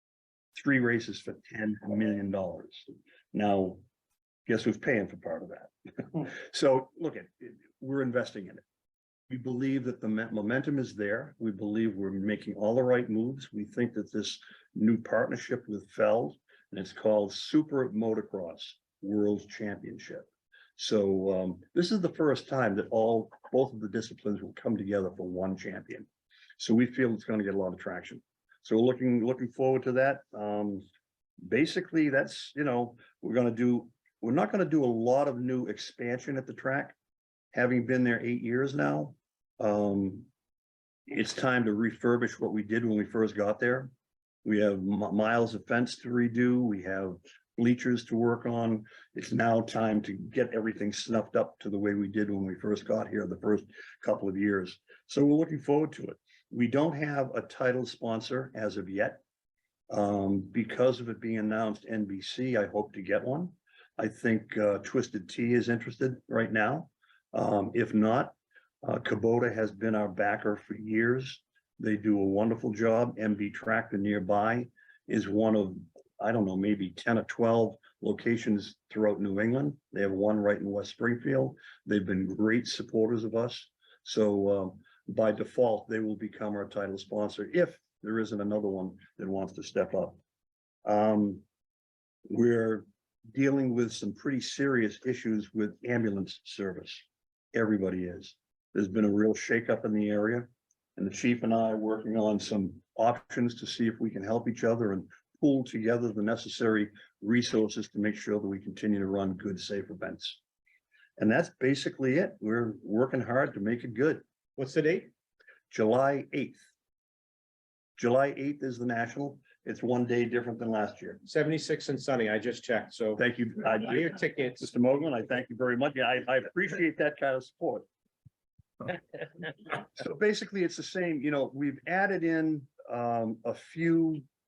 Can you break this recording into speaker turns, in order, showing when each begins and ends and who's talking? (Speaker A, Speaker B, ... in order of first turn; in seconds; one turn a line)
Speaker A: 0.6-3.8
Speaker A: 4.5-8.6
Speaker A: 9.3-26.1
Speaker A: 26.6-30.9
Speaker A: 31.4-37.0
Speaker A: 37.5-40.3
Speaker A: 41.1-43.9
Speaker A: 44.5-59.2
Speaker A: 59.9-90.2
Speaker A: 90.8-91.4
Speaker A: 92.3-110.4
Speaker A: 111.2-114.2
Speaker B: 114.6-115.1
Speaker A: 115.7-116.7
Speaker A: 118.0-121.2
Speaker B: 121.2-123.2
Speaker A: 123.2-127.9
Speaker B: 123.8-124.7
Speaker A: 129.7-134.3